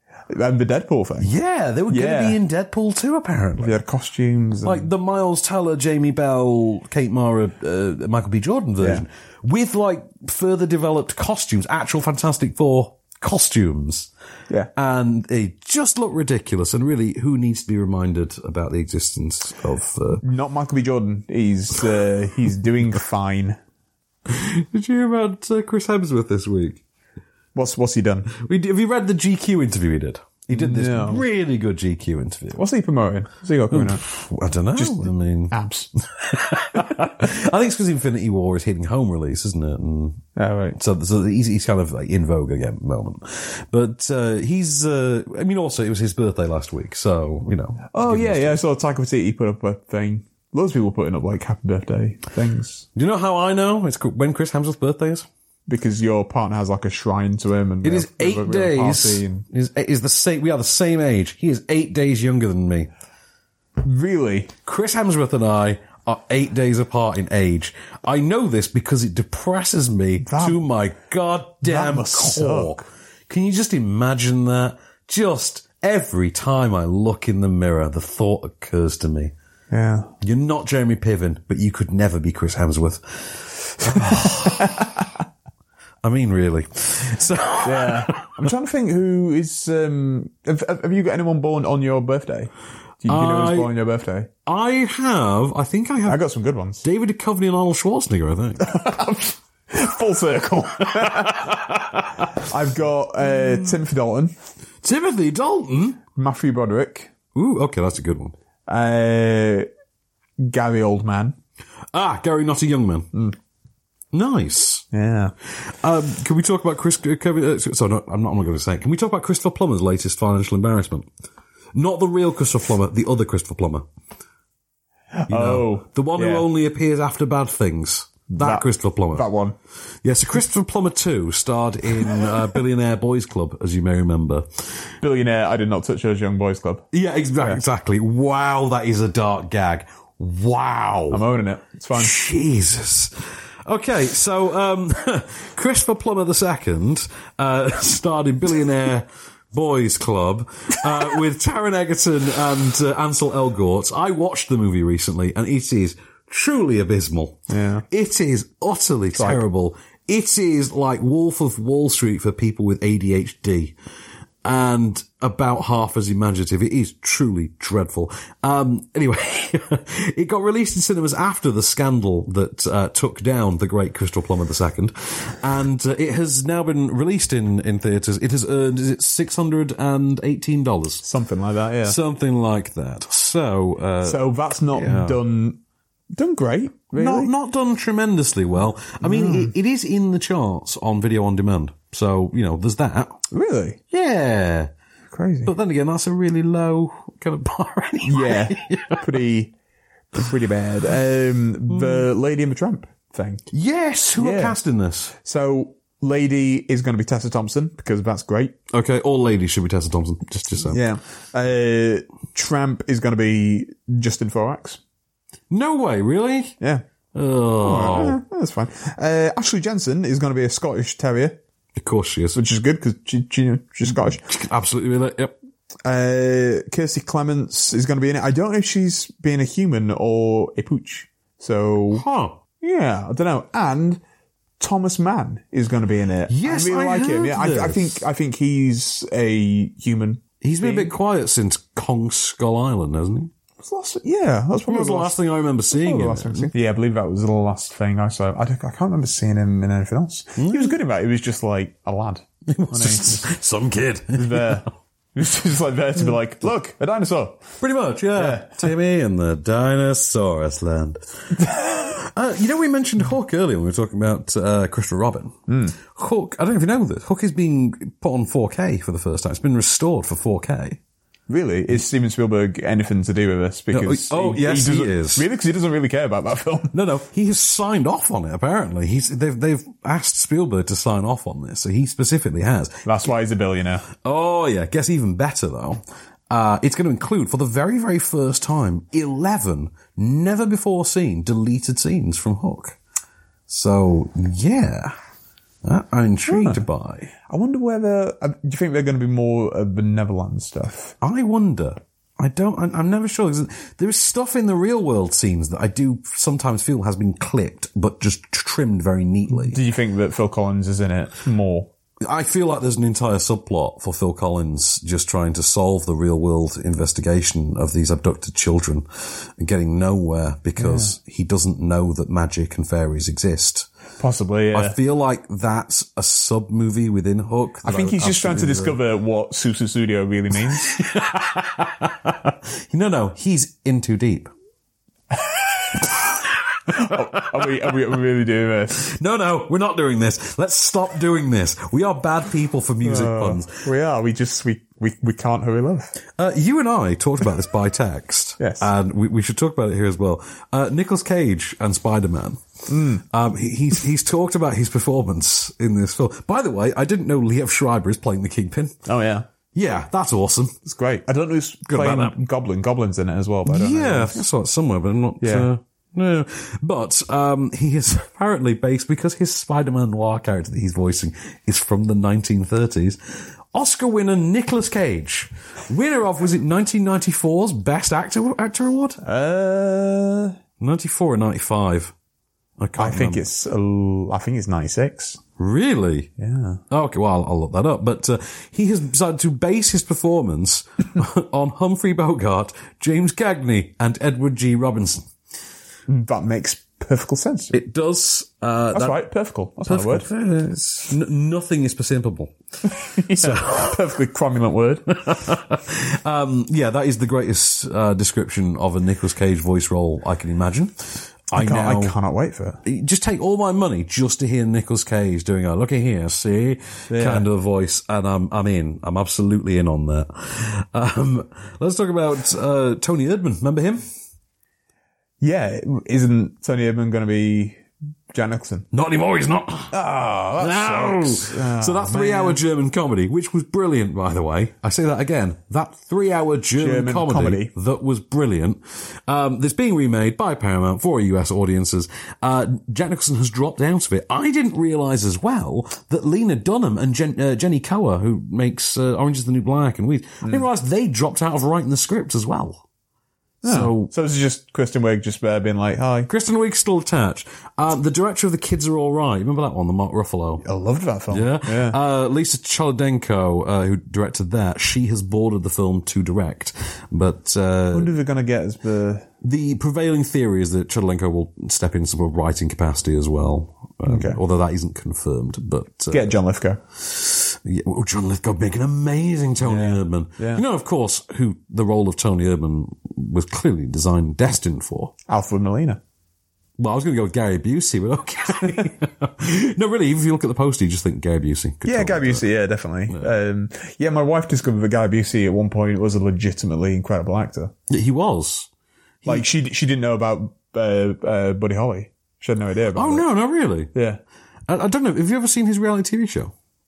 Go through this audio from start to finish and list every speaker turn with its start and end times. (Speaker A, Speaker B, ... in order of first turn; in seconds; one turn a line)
Speaker A: 0.3-1.3
Speaker B: 1.2-3.8
Speaker A: 1.9-2.4
Speaker A: 3.6-4.9
Speaker B: 4.6-14.1
Speaker A: 8.8-9.1
Speaker B: 14.8-20.2
Speaker A: 20.2-23.6
Speaker B: 24.3-26.8
Speaker A: 27.6-28.3
Speaker B: 28.3-32.6
Speaker A: 30.5-31.2
Speaker A: 32.5-34.0
Speaker B: 33.7-35.5
Speaker A: 34.8-35.9
Speaker B: 36.2-40.2
Speaker A: 40.4-40.8
Speaker B: 40.8-48.6
Speaker A: 47.9-52.9
Speaker B: 53.0-55.3
Speaker A: 55.7-59.5
Speaker B: 57.8-62.9
Speaker A: 63.8-64.5
Speaker B: 64.7-79.3
Speaker A: 70.2-70.6
Speaker A: 71.6-72.8
Speaker A: 79.7-80.1
Speaker B: 80.2-84.7
Speaker A: 84.0-85.0
Speaker B: 86.0-88.3
Speaker A: 87.6-92.5
Speaker A: 93.0-94.3
Speaker B: 93.0-93.7
Speaker B: 94.5-96.2
Speaker A: 96.1-96.8
Speaker B: 96.8-98.6
Speaker A: 98.6-101.6
Speaker B: 101.0-101.6
Speaker A: 102.5-104.3
Speaker B: 103.3-103.7
Speaker B: 104.8-106.0
Speaker A: 106.2-107.1
Speaker B: 107.3-108.3
Speaker A: 108.7-109.7
Speaker A: 110.4-111.4
Speaker B: 111.9-113.1
Speaker B: 114.1-114.9
Speaker A: 114.9-115.3
Speaker B: 115.6-121.1
Speaker B: 121.7-123.9
Speaker A: 125.2-126.5
Speaker B: 125.3-129.3
Speaker A: 128.3-129.6
Speaker B: 130.0-134.6
Speaker A: 135.0-136.9
Speaker B: 136.9-141.2
Speaker A: 141.1-142.1
Speaker B: 141.9-163.8
Speaker A: 157.5-157.8
Speaker A: 159.1-159.4
Speaker B: 164.4-181.1
Speaker A: 181.0-182.0
Speaker B: 181.8-185.2
Speaker A: 184.0-185.6
Speaker A: 186.1-187.3
Speaker B: 186.9-193.2
Speaker A: 189.0-189.5
Speaker A: 193.3-193.8
Speaker B: 193.9-194.7
Speaker A: 195.1-195.5
Speaker B: 195.4-199.0
Speaker A: 198.1-199.5
Speaker A: 200.1-203.5
Speaker B: 201.7-202.1
Speaker B: 203.5-205.2
Speaker A: 204.2-204.6
Speaker A: 205.2-208.6
Speaker B: 208.7-210.8
Speaker A: 210.7-214.8
Speaker B: 215.5-216.6
Speaker B: 217.2-218.2
Speaker A: 217.6-221.4
Speaker B: 221.8-222.4
Speaker A: 222.3-224.2
Speaker B: 223.9-225.3
Speaker A: 225.8-232.0
Speaker B: 231.9-232.4
Speaker A: 232.6-234.0
Speaker A: 234.6-240.9
Speaker B: 236.3-238.1
Speaker B: 240.4-243.3
Speaker A: 243.6-245.2
Speaker B: 244.7-246.5
Speaker A: 245.7-253.3
Speaker B: 250.3-250.8
Speaker B: 252.5-254.7
Speaker A: 254.1-257.5
Speaker B: 257.6-270.8
Speaker A: 258.1-258.7
Speaker A: 261.5-261.8
Speaker A: 265.5-265.8
Speaker A: 271.3-276.7
Speaker B: 273.7-275.2
Speaker B: 276.7-282.8
Speaker A: 282.9-283.9
Speaker B: 283.9-292.8
Speaker B: 293.5-294.9
Speaker B: 295.6-297.1
Speaker A: 296.3-296.6
Speaker A: 297.3-300.9
Speaker B: 301.0-309.6
Speaker A: 309.3-311.7
Speaker B: 312.0-323.7
Speaker A: 320.6-320.9
Speaker A: 324.0-324.8
Speaker B: 324.5-328.8
Speaker A: 327.6-330.8
Speaker B: 330.7-334.3
Speaker A: 336.7-338.8
Speaker B: 338.8-343.6
Speaker A: 342.8-345.9
Speaker B: 346.2-352.4
Speaker A: 348.4-348.7
Speaker A: 352.7-353.0
Speaker B: 353.1-358.8
Speaker A: 358.9-359.3
Speaker B: 359.5-360.6
Speaker A: 360.7-364.2
Speaker B: 361.7-362.2
Speaker B: 363.4-379.0
Speaker A: 365.2-365.5
Speaker A: 379.0-380.4
Speaker B: 380.6-381.9
Speaker B: 382.6-383.2
Speaker A: 382.8-385.2
Speaker B: 385.4-386.1
Speaker A: 386.2-386.6
Speaker B: 386.7-395.1
Speaker A: 395.9-397.6
Speaker B: 397.5-399.0
Speaker A: 398.7-400.1
Speaker B: 399.6-402.3
Speaker A: 402.9-404.9
Speaker B: 403.1-403.8
Speaker B: 405.1-412.0
Speaker A: 411.3-412.6
Speaker B: 412.6-423.8
Speaker A: 416.9-417.3
Speaker A: 425.2-428.7
Speaker B: 428.7-429.8
Speaker A: 429.7-432.4
Speaker B: 430.4-452.6
Speaker A: 436.6-437.5
Speaker B: 453.4-453.9
Speaker A: 453.4-456.1
Speaker B: 456.1-460.4
Speaker A: 460.4-461.8
Speaker B: 461.1-467.9
Speaker A: 467.7-469.1
Speaker B: 469.2-476.1
Speaker A: 473.9-474.2
Speaker A: 475.9-476.6
Speaker B: 476.8-484.9
Speaker A: 479.4-480.4
Speaker A: 485.1-485.8
Speaker B: 486.6-492.3
Speaker A: 491.6-497.5
Speaker B: 497.7-498.5
Speaker A: 499.1-503.1
Speaker B: 502.8-503.7
Speaker A: 503.7-504.0
Speaker B: 504.5-506.3